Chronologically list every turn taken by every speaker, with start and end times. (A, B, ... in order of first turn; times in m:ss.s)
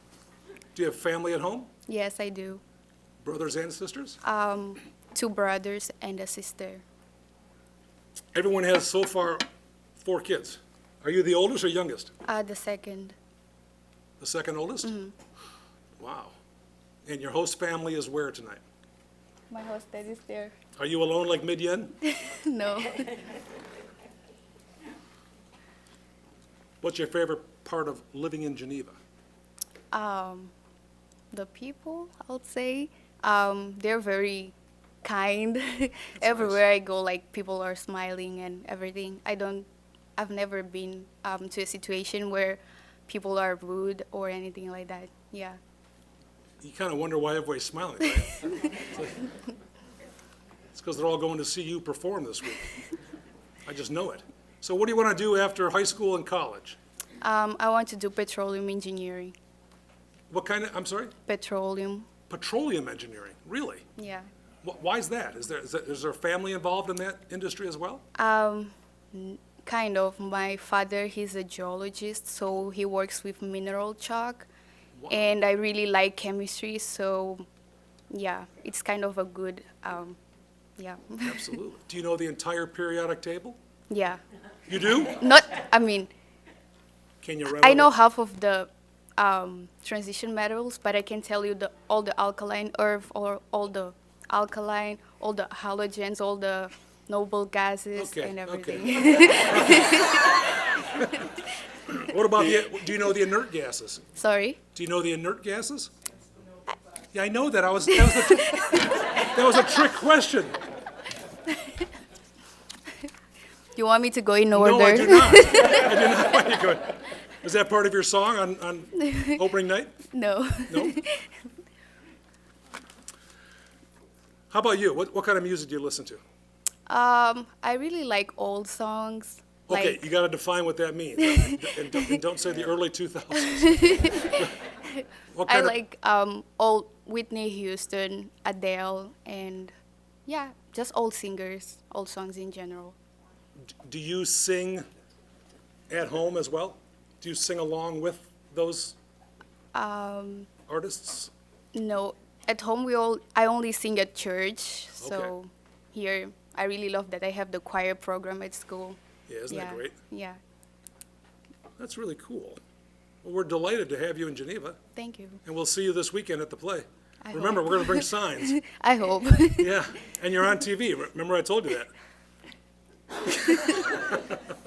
0:00.7-0:01.7 A
0:01.9-0:02.6 B
0:03.2-0:04.2 A
0:04.2-0:06.8 B
0:08.4-0:09.4 A
0:10.0-0:12.1 A
0:12.3-0:13.1 B
0:14.2-0:14.9 A
0:14.8-0:15.1 B
0:16.0-0:16.3 A
0:17.0-0:18.6 A
0:19.5-0:20.5 B
0:20.8-0:21.9 A
0:22.0-0:23.3 B
0:26.8-0:29.0 A
0:29.9-0:30.5 B
0:31.3-0:45.6 B
0:36.2-0:36.6 A
0:46.6-0:49.1 A
0:50.7-0:52.7 A
0:53.6-0:56.8 A
0:57.2-0:59.3 B
1:00.3-1:01.1 A
1:01.3-1:02.1 B
1:02.3-1:03.8 A
1:04.0-1:04.3 B
1:04.6-1:08.0 A
1:08.2-1:14.5 B
1:15.0-1:15.3 A
1:15.1-1:17.5 B
1:18.1-1:20.2 B
1:20.8-1:21.6 B
1:21.2-1:23.6 A
1:23.9-1:24.2 B
1:24.7-1:25.2 A
1:25.0-1:26.1 B
1:27.2-1:27.9 A
1:27.5-1:40.4 B
1:38.0-1:40.3 A
1:42.0-1:44.0 A
1:44.2-1:44.6 B
1:44.8-1:45.9 A
1:47.1-1:50.6 A
1:48.3-1:48.9 B
1:53.8-1:55.9 B
1:54.5-2:00.0 A
1:59.0-1:59.5 B
2:00.1-2:01.5 B
2:00.7-2:01.0 A
2:04.5-2:06.2 A
2:06.9-2:10.1 B
2:09.7-2:14.5 A
2:11.3-2:12.2 B
2:13.4-2:19.7 B
2:15.3-2:15.8 A
2:20.3-2:23.0 B
2:23.8-2:24.8 A
2:25.9-2:29.0 A
2:29.7-2:30.5 B
2:30.7-2:31.3 A
2:31.7-2:39.0 B
2:35.0-2:35.3 A
2:39.3-2:40.0 A
2:39.5-2:40.4 B
2:41.8-2:42.6 A
2:43.2-2:44.8 A
2:45.0-2:45.4 B
2:45.4-2:48.6 A
2:47.2-2:49.8 B
2:49.6-2:51.9 A
2:53.5-2:54.2 A